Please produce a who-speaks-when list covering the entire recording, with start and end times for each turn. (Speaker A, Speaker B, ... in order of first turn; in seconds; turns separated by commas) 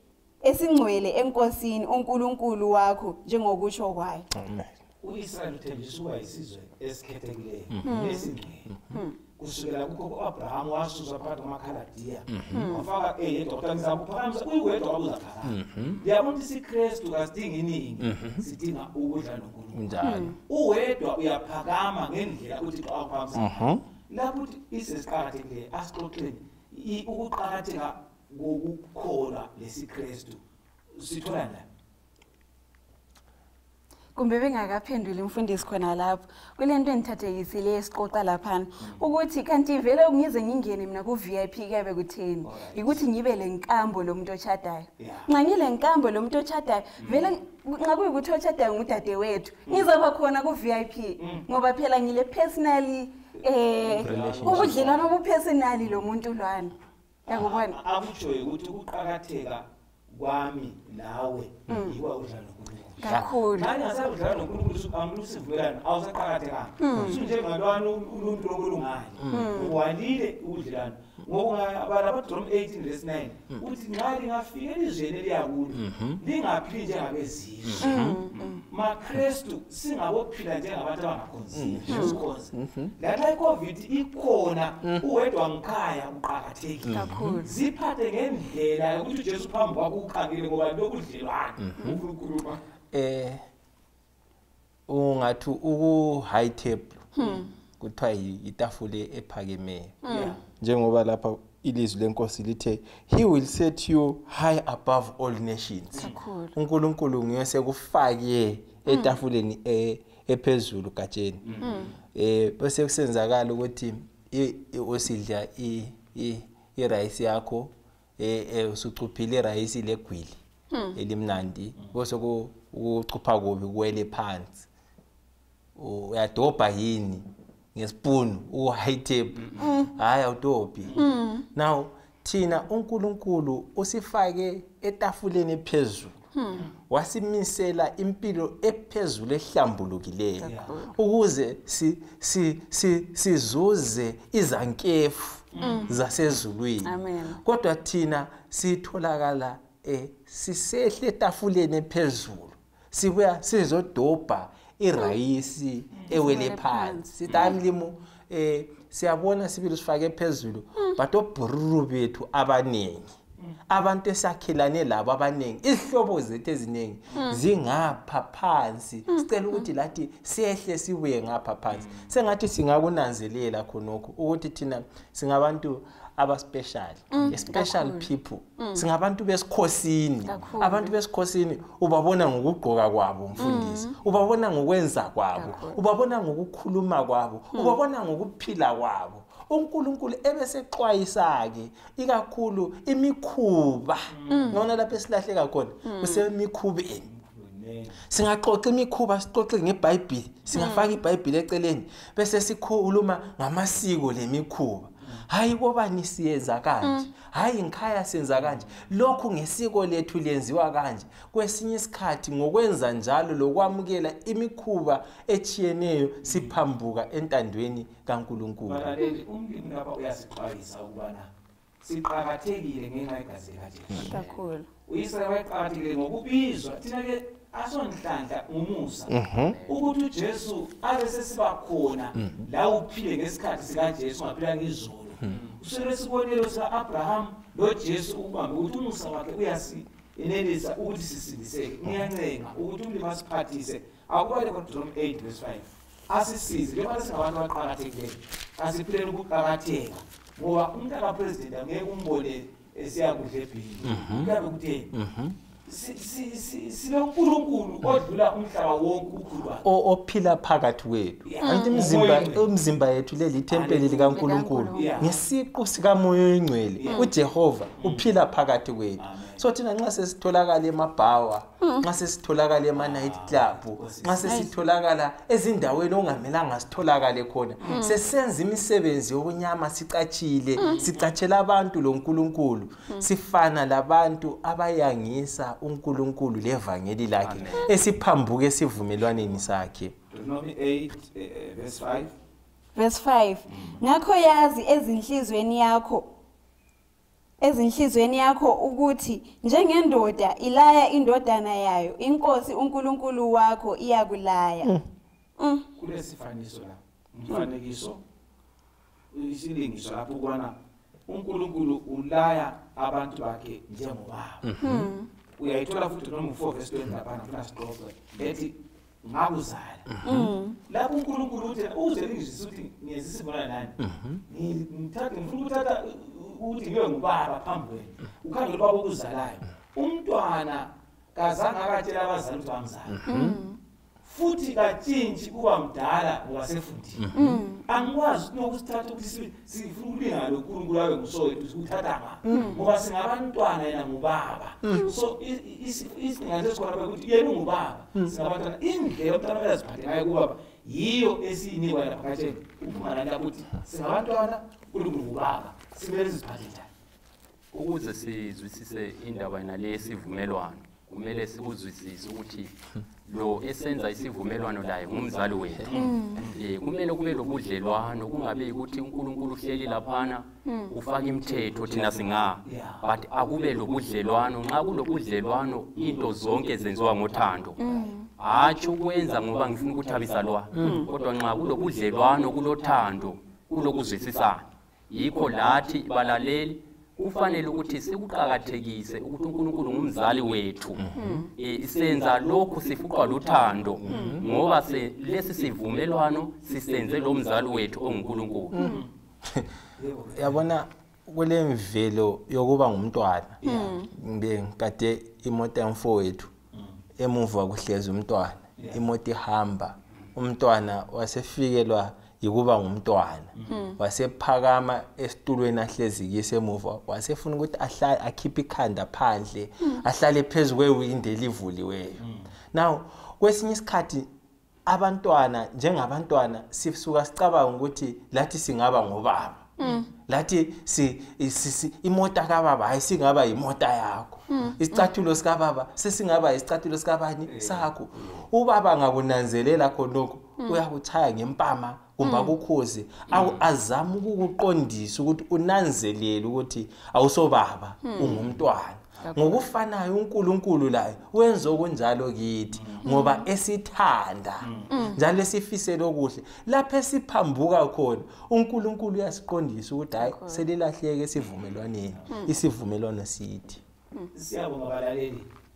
Speaker A: 0.4-4.3, Speaker B: 4.3-4.7, Speaker C: 5.0-8.7, Speaker B: 7.7-8.0, Speaker A: 7.8-8.3, Speaker A: 8.9-9.2, Speaker C: 9.4-30.4, Speaker B: 12.3-12.7, Speaker A: 12.5-12.8, Speaker B: 15.4-16.0, Speaker B: 18.0-18.4, Speaker B: 19.7-20.3, Speaker A: 20.0-20.4, Speaker B: 23.4-23.8, Speaker C: 30.9-31.6, Speaker A: 34.1-56.7, Speaker C: 42.4-43.0, Speaker C: 45.0-45.3, Speaker C: 47.0-47.3, Speaker C: 51.2-51.5, Speaker C: 53.8-55.1, Speaker B: 54.0-54.9, Speaker C: 57.2-78.2, Speaker A: 57.3-57.8, Speaker A: 61.7-61.9, Speaker A: 63.0-63.7, Speaker B: 63.1-63.3, Speaker A: 66.8-67.2, Speaker B: 66.9-67.2, Speaker B: 69.2-69.5, Speaker A: 69.3-69.8, Speaker B: 75.7-76.2, Speaker B: 77.7-78.2, Speaker A: 77.8-78.6, Speaker C: 78.7-92.6, Speaker B: 81.5-82.9, Speaker A: 81.9-82.2, Speaker B: 86.8-87.4, Speaker A: 86.9-87.6, Speaker B: 91.6-92.0, Speaker B: 92.9-93.4, Speaker B: 94.9-97.1, Speaker A: 97.1-97.5, Speaker B: 97.8-111.4, Speaker A: 100.0-100.3, Speaker C: 100.0-100.4, Speaker C: 105.9-106.2, Speaker A: 106.0-106.5, Speaker A: 108.9-109.2, Speaker A: 111.6-111.9, Speaker B: 112.1-120.4, Speaker B: 120.9-124.7, Speaker B: 125.8-136.2, Speaker A: 129.6-129.9, Speaker C: 130.8-131.1, Speaker A: 130.9-131.5, Speaker A: 136.3-136.6, Speaker B: 136.9-163.2, Speaker A: 140.4-140.9, Speaker C: 140.4-140.7, Speaker C: 145.5-145.9, Speaker A: 145.6-145.9, Speaker A: 146.8-147.4, Speaker A: 156.1-157.1, Speaker C: 157.3-157.6, Speaker B: 163.7-197.1, Speaker A: 167.1-167.4, Speaker C: 171.7-172.1, Speaker A: 177.1-178.8, Speaker A: 180.2-180.9, Speaker C: 180.4-180.6, Speaker A: 183.4-183.9, Speaker A: 185.3-185.8, Speaker C: 194.1-194.6, Speaker A: 194.3-194.6, Speaker A: 195.8-196.2, Speaker C: 197.1-198.0, Speaker B: 198.1-218.9, Speaker A: 200.5-201.0, Speaker A: 206.8-207.1, Speaker C: 208.4-208.8, Speaker C: 216.3-216.5, Speaker C: 218.6-221.3, Speaker C: 221.8-224.2, Speaker D: 224.0-224.3, Speaker A: 224.0-224.7, Speaker C: 224.8-254.9, Speaker B: 229.1-229.6, Speaker B: 232.2-232.4, Speaker B: 253.8-254.3, Speaker B: 254.9-255.4, Speaker C: 255.6-259.6, Speaker B: 259.6-289.9, Speaker C: 261.2-262.5, Speaker A: 261.4-261.8, Speaker C: 263.5-265.2, Speaker A: 264.1-265.1, Speaker C: 266.8-267.1, Speaker A: 266.9-267.1, Speaker C: 267.8-268.1, Speaker C: 269.0-269.4, Speaker A: 271.6-271.9, Speaker C: 272.7-274.5, Speaker A: 274.2-274.5, Speaker A: 277.6-278.0, Speaker A: 280.6-280.8, Speaker C: 280.6-281.1, Speaker C: 287.2-287.6, Speaker C: 290.1-292.1, Speaker A: 292.7-296.1, Speaker C: 293.5-293.8, Speaker A: 297.4-304.7, Speaker A: 305.4-305.7, Speaker C: 305.8-308.0, Speaker C: 309.1-310.5, Speaker C: 311.1-314.4, Speaker B: 314.4-314.9, Speaker A: 314.6-315.1, Speaker C: 315.4-319.9, Speaker B: 319.9-320.3, Speaker A: 320.0-320.6, Speaker C: 320.7-323.8, Speaker B: 323.8-324.2, Speaker C: 324.3-333.0, Speaker B: 332.9-333.4, Speaker A: 333.1-333.6, Speaker C: 334.0-337.1, Speaker B: 337.0-337.4, Speaker A: 337.1-337.6, Speaker C: 337.6-356.7, Speaker B: 342.2-342.5, Speaker A: 342.3-342.6, Speaker B: 344.6-344.9, Speaker D: 357.5-362.5, Speaker D: 363.1-365.8, Speaker C: 365.6-366.4, Speaker A: 365.7-366.2, Speaker D: 366.3-377.6, Speaker A: 370.4-370.7, Speaker C: 372.4-372.8, Speaker A: 377.6-378.1, Speaker D: 378.2-390.9, Speaker B: 380.5-380.8, Speaker A: 380.6-380.9, Speaker B: 390.8-391.2, Speaker A: 390.9-391.3, Speaker D: 391.4-398.6, Speaker B: 393.8-394.2, Speaker A: 393.9-394.2, Speaker B: 398.5-399.5, Speaker A: 398.6-398.8, Speaker C: 398.6-398.9, Speaker C: 399.8-400.4, Speaker B: 400.1-406.3, Speaker C: 403.4-403.8, Speaker A: 403.4-403.9, Speaker B: 407.0-424.1, Speaker C: 408.6-408.8, Speaker C: 413.3-413.6, Speaker A: 413.5-413.8, Speaker C: 422.0-422.3, Speaker B: 424.6-463.6, Speaker A: 429.6-429.9, Speaker A: 434.3-434.8, Speaker C: 437.2-438.2, Speaker A: 442.0-442.4, Speaker C: 443.1-443.4, Speaker A: 447.8-448.2, Speaker C: 448.0-448.4, Speaker A: 449.0-449.4, Speaker C: 452.5-452.9, Speaker A: 452.8-453.3, Speaker C: 454.4-454.8, Speaker A: 454.7-455.0, Speaker A: 460.0-460.4, Speaker C: 461.9-462.2, Speaker C: 464.1-465.3